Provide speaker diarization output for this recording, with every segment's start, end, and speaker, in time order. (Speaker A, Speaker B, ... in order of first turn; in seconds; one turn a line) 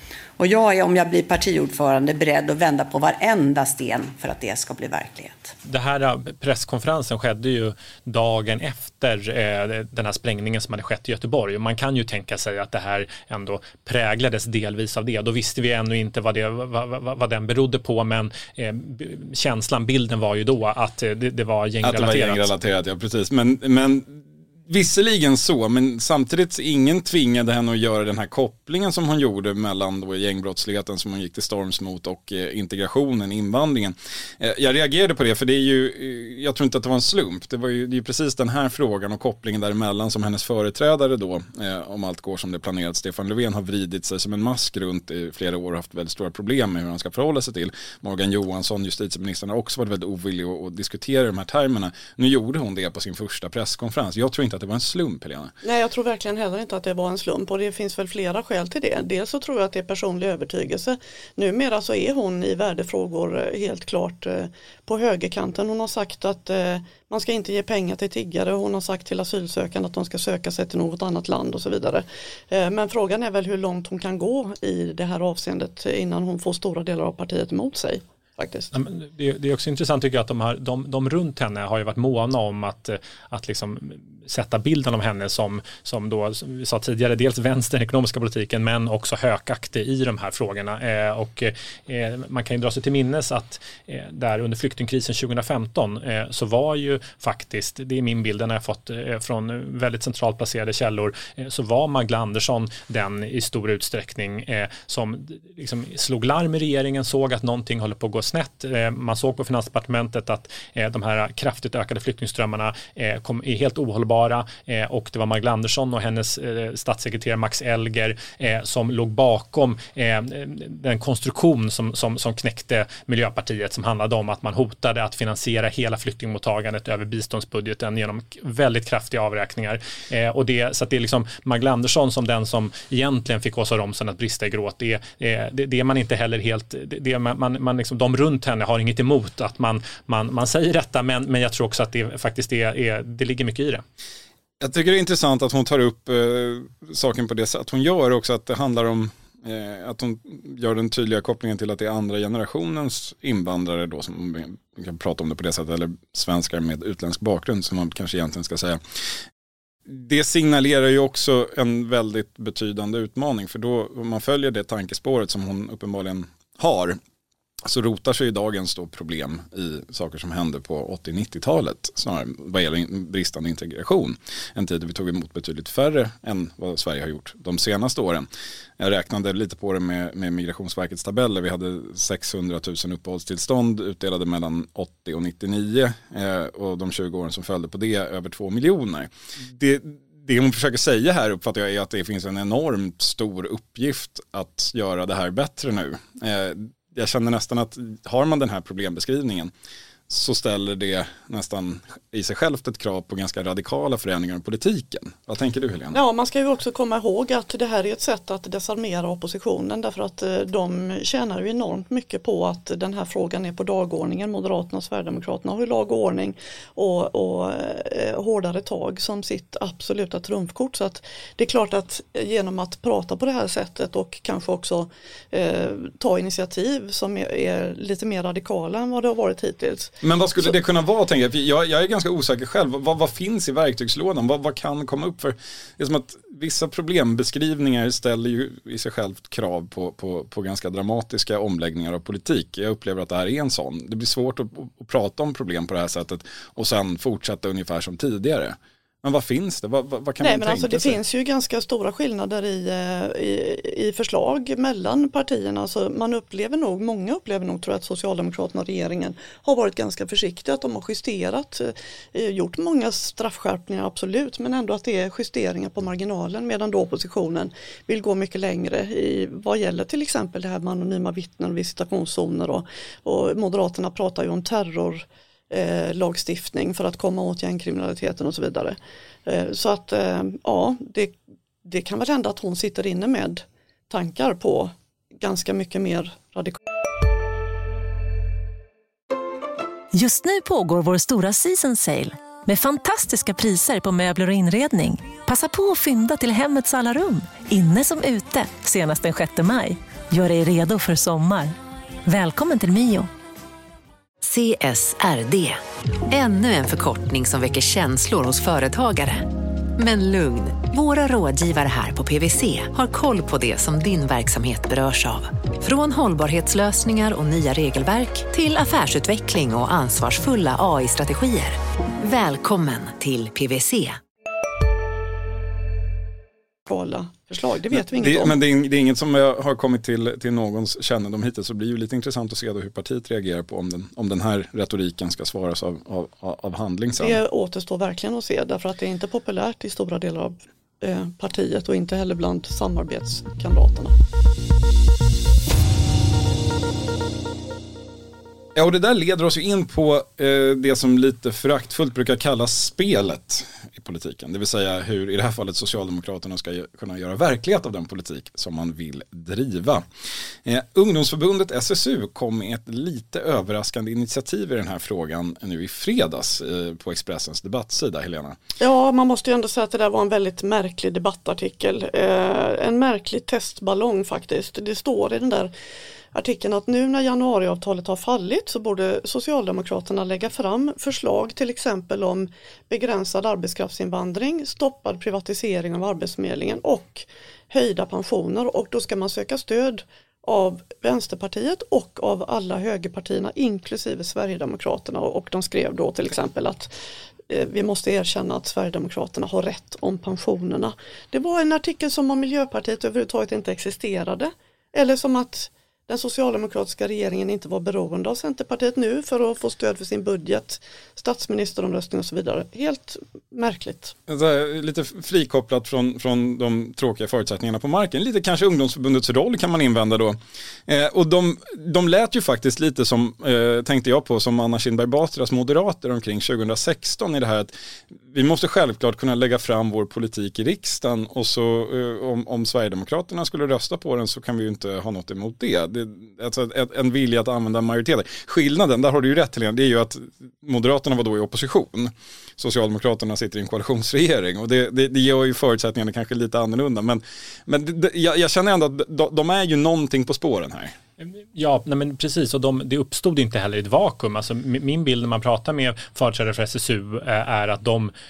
Speaker A: 0.4-5.5
Speaker B: 5.7-22.5
Speaker C: 21.8-55.5
Speaker D: 55.6-78.7
Speaker B: 78.7-143.8
Speaker C: 144.6-158.8
Speaker C: 159.9-167.0
Speaker C: 167.6-178.3
Speaker C: 178.8-199.5
Speaker C: 200.1-206.0
Speaker D: 205.9-230.5
Speaker C: 230.0-251.0
Speaker D: 250.2-286.6
Speaker E: 289.9-301.5
Speaker E: 302.1-303.1
Speaker F: 304.2-305.6
Speaker F: 306.1-324.0
Speaker D: 326.7-328.4
Speaker C: 327.7-337.2
Speaker D: 337.0-343.9
Speaker C: 348.5-359.8
Speaker C: 360.4-368.4
Speaker D: 368.6-375.5
Speaker D: 376.1-396.7
Speaker D: 397.3-413.9
Speaker C: 414.1-427.5
Speaker C: 428.1-450.8
Speaker B: 451.0-457.9